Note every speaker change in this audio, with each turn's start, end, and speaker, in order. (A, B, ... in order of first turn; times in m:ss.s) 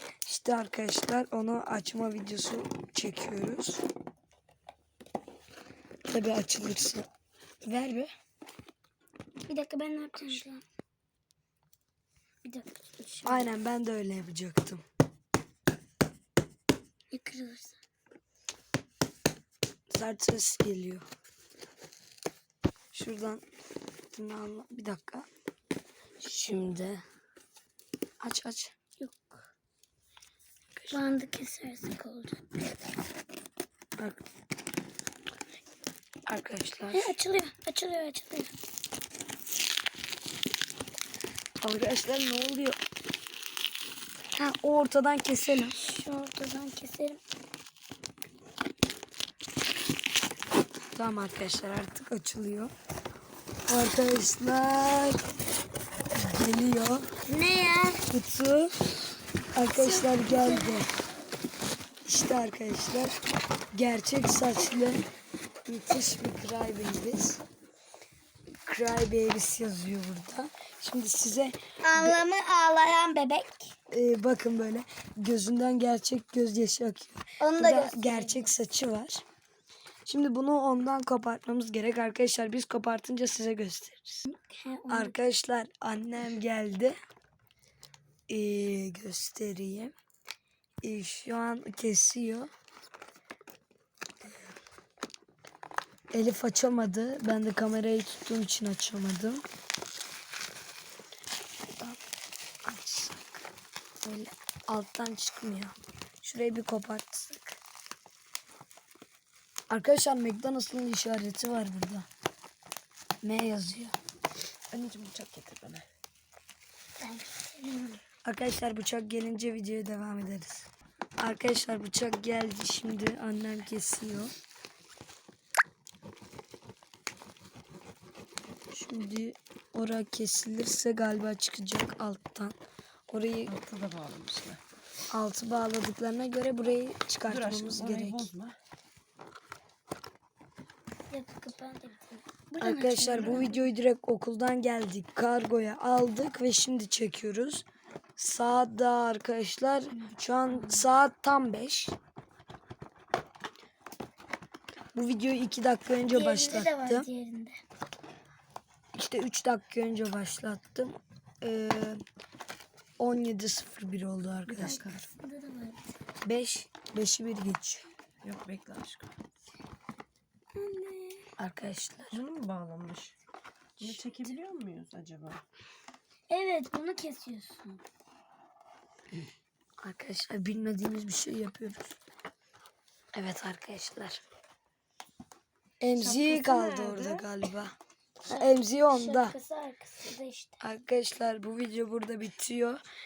0:00.2-0:03.8 A
0:06.1-0:07.1 A
0:07.6-0:08.1 A
0:09.4-0:10.6 B
0:12.4-0:13.5 B
0:13.2-0:14.8 A
0:17.1-0:17.8 B
0:19.9-0:21.0 A
0:22.9-0:23.4 A
0:24.1-0:25.3 A
0:26.2-0:27.0 A
0:28.2-0:28.7 A
0:29.0-0:29.4 B
0:30.8-0:31.0 A
0:30.9-0:32.4 B
0:36.3-0:37.1 A
0:36.9-0:38.5 B
0:41.6-0:42.8 A
0:44.4-0:45.8 A
0:45.7-0:47.2 B
0:50.9-0:52.7 A
0:53.7-0:55.2 A
0:56.1-0:57.1 A
0:57.3-0:58.0 B
0:58.1-0:58.7 A
0:59.5-1:00.9 A
0:59.7-1:00.8 B
1:02.0-1:03.2 A
1:03.7-1:05.0 A
1:05.6-1:07.4 A
1:08.6-1:12.2 A
1:11.8-1:13.7 B
1:13.9-1:19.2 A
1:17.4-1:18.5 B
1:20.0-1:24.2 A
1:24.2-1:25.2 B
1:24.9-1:27.0 A
1:28.3-1:29.9 A
1:30.8-1:32.5 A
1:36.1-1:39.4 A
1:41.6-1:42.0 A
1:42.6-1:43.4 A
1:44.0-1:47.6 A
1:49.7-1:52.1 A
1:53.2-1:54.0 A
1:54.7-1:55.8 C
1:57.0-1:58.0 B
1:58.2-2:00.6 A
2:01.2-2:04.3 A
2:08.7-2:12.6 A
2:13.1-2:13.5 A
2:13.5-2:14.6 C
2:15.1-2:18.3 A
2:17.2-2:18.6 C
2:21.1-2:23.7 B
2:22.6-2:27.6 A
2:28.2-2:31.9 A
2:30.0-2:30.8 B
2:34.9-2:37.1 A
2:36.1-2:37.6 B
2:38.9-2:42.0 A
2:43.0-2:44.9 A
2:44.5-2:45.0 C
2:44.6-2:45.9 B
2:46.2-2:47.9 A
2:48.2-2:49.1 C
2:50.5-2:51.3 B
2:51.4-2:52.2 A
2:52.1-2:53.2 C
2:53.8-2:55.4 C
2:56.3-2:57.8 B
2:59.8-3:01.9 A
3:03.1-3:04.2 A
3:05.8-3:07.7 A
3:06.0-3:07.3 C
3:08.3-3:10.6 B
3:08.3-3:09.4 A
3:10.6-3:12.8 A